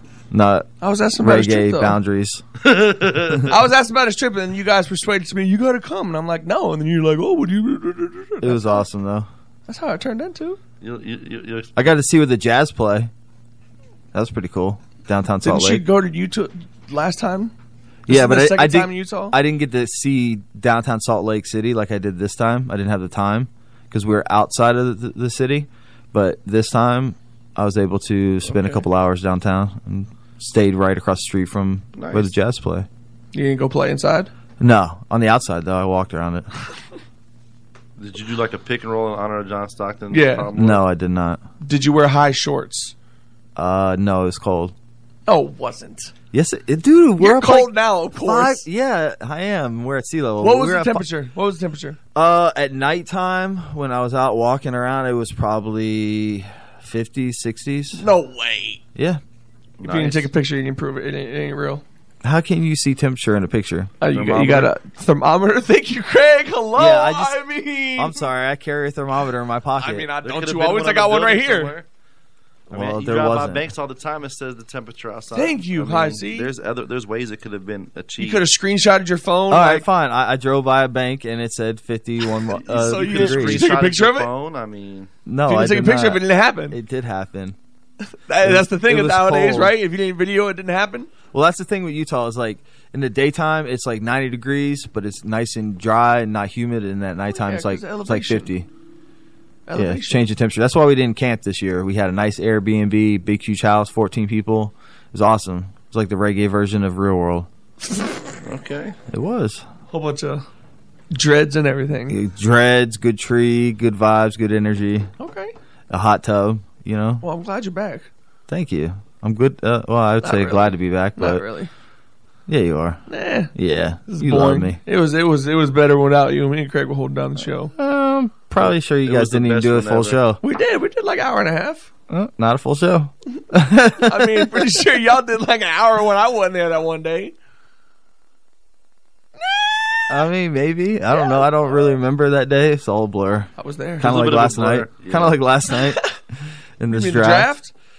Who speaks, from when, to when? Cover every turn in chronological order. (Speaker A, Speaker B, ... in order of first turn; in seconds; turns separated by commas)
Speaker A: 0.3-0.7, Speaker B: 0.8-2.0, Speaker A: 1.2-2.4, Speaker C: 2.6-3.5, Speaker B: 3.5-8.8, Speaker A: 8.4-9.3, Speaker B: 9.7-10.6, Speaker C: 10.8-11.7, Speaker A: 11.8-13.1, Speaker A: 14.1-15.8, Speaker B: 15.4-17.5, Speaker A: 18.1-32.9, Speaker B: 18.1-19.4, Speaker B: 28.5-28.8, Speaker C: 32.0-32.3, Speaker B: 33.3-34.3, Speaker A: 34.6-36.5, Speaker C: 38.0-40.8, Speaker B: 40.1-40.5, Speaker A: 40.5-41.4, Speaker B: 41.6-42.9, Speaker A: 43.6-44.7, Speaker B: 45.3-46.1, Speaker A: 46.3-47.7, Speaker B: 47.2-48.6, Speaker A: 48.2-51.0, Speaker B: 50.4-52.0, Speaker A: 52.1-58.1, Speaker B: 58.0-58.8, Speaker A: 58.9-59.2, Speaker C: 59.8-60.3, Speaker B: 59.8-61.8, Speaker A: 62.2-63.9, Speaker B: 64.0-68.2, Speaker C: 64.1-64.7, Speaker A: 66.8-67.4, Speaker A: 68.0-70.1, Speaker B: 69.8-71.7, Speaker C: 70.2-71.9, Speaker A: 72.7-73.6, Speaker C: 72.7-78.4, Speaker B: 75.3-76.5, Speaker B: 78.2-79.9, Speaker A: 79.5-83.7, Speaker B: 82.5-84.3, Speaker C: 82.9-85.1, Speaker A: 85.2-87.6, Speaker B: 85.5-86.8, Speaker B: 88.3-91.1, Speaker A: 88.4-89.8, Speaker A: 91.3-98.7, Speaker B: 97.3-98.5, Speaker B: 99.7-100.3, Speaker A: 99.8-107.5, Speaker C: 108.4-109.0, Speaker A: 109.1-109.6, Speaker B: 109.9-110.5, Speaker B: 111.1-112.2, Speaker A: 112.1-115.1, Speaker B: 115.2-115.5, Speaker A: 115.9-117.2, Speaker B: 117.2-118.1, Speaker A: 118.5-121.4, Speaker B: 120.2-121.7, Speaker A: 122.5-123.0, Speaker B: 123.1-123.5, Speaker A: 123.5-124.8, Speaker B: 124.1-127.7, Speaker A: 127.8-130.4, Speaker C: 129.0-130.2, Speaker B: 130.4-131.9, Speaker A: 132.1-134.7, Speaker B: 134.0-137.3, Speaker B: 139.4-140.2, Speaker A: 140.1-146.2, Speaker B: 141.1-141.5, Speaker B: 143.6-144.2, Speaker C: 144.0-145.4, Speaker A: 146.8-147.5, Speaker B: 146.9-147.7